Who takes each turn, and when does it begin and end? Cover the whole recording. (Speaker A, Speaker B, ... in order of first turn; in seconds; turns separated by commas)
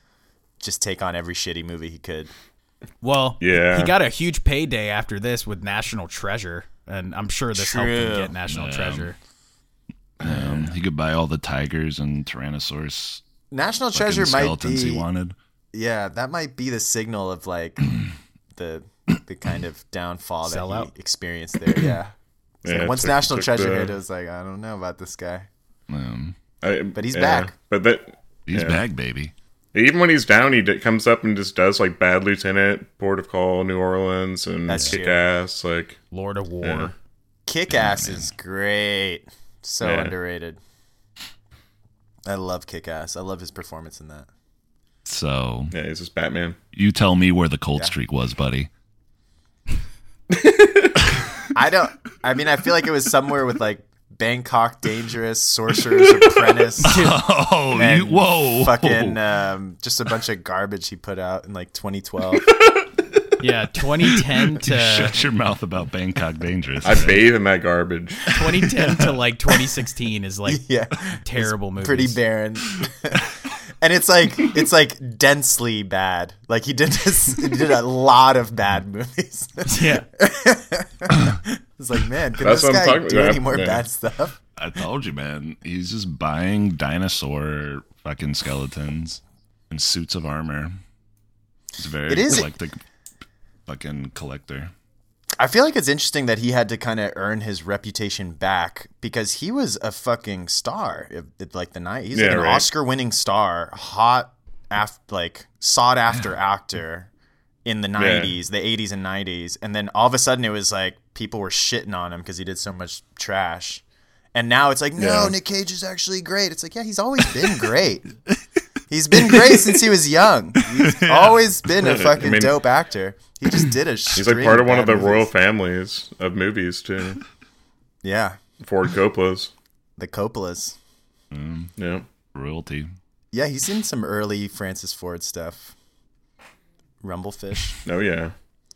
Speaker A: 0.6-2.3, Speaker B: 3.0-9.2, Speaker C: 3.4-3.9, Speaker A: 7.5-8.3, Speaker D: 8.5-9.1, Speaker D: 10.2-13.2, Speaker A: 13.5-15.1, Speaker D: 13.9-15.3, Speaker A: 15.7-18.0, Speaker A: 18.5-25.5, Speaker B: 20.4-20.9, Speaker C: 22.6-23.9, Speaker D: 25.9-26.3, Speaker C: 26.6-28.8, Speaker A: 26.9-27.5, Speaker D: 28.5-29.3, Speaker C: 29.7-36.0, Speaker A: 34.7-35.2, Speaker B: 36.1-36.9, Speaker C: 36.6-36.9, Speaker A: 37.5-40.6, Speaker D: 37.7-38.3, Speaker C: 39.8-40.1, Speaker A: 42.2-44.3, Speaker D: 45.0-45.7, Speaker C: 45.7-46.6, Speaker D: 46.7-48.7, Speaker C: 50.3-51.0, Speaker A: 51.5-57.0, Speaker D: 56.8-59.2, Speaker B: 56.8-57.1, Speaker A: 57.7-62.5, Speaker B: 63.4-65.1, Speaker D: 64.5-67.3, Speaker C: 66.8-68.2, Speaker B: 68.3-70.6, Speaker D: 68.6-69.1, Speaker A: 70.5-73.2, Speaker B: 71.2-72.2, Speaker A: 73.8-84.3, Speaker B: 79.6-80.0, Speaker C: 82.4-83.8, Speaker D: 84.6-90.7, Speaker D: 91.8-92.8, Speaker A: 92.1-92.5, Speaker D: 93.7-94.7, Speaker A: 95.4-107.1, Speaker C: 102.1-102.7, Speaker A: 107.7-113.8, Speaker C: 108.0-108.3, Speaker A: 114.3-118.1, Speaker C: 115.0-115.3, Speaker A: 118.9-125.3, Speaker D: 119.2-119.7, Speaker D: 120.8-121.4, Speaker C: 121.8-122.6, Speaker C: 124.1-127.2, Speaker A: 128.0-128.4, Speaker C: 128.6-129.5, Speaker A: 130.0-130.8, Speaker D: 131.3-131.7, Speaker C: 131.8-132.1, Speaker D: 132.3-132.9, Speaker A: 133.3-135.7, Speaker A: 137.0-137.8, Speaker C: 137.8-138.3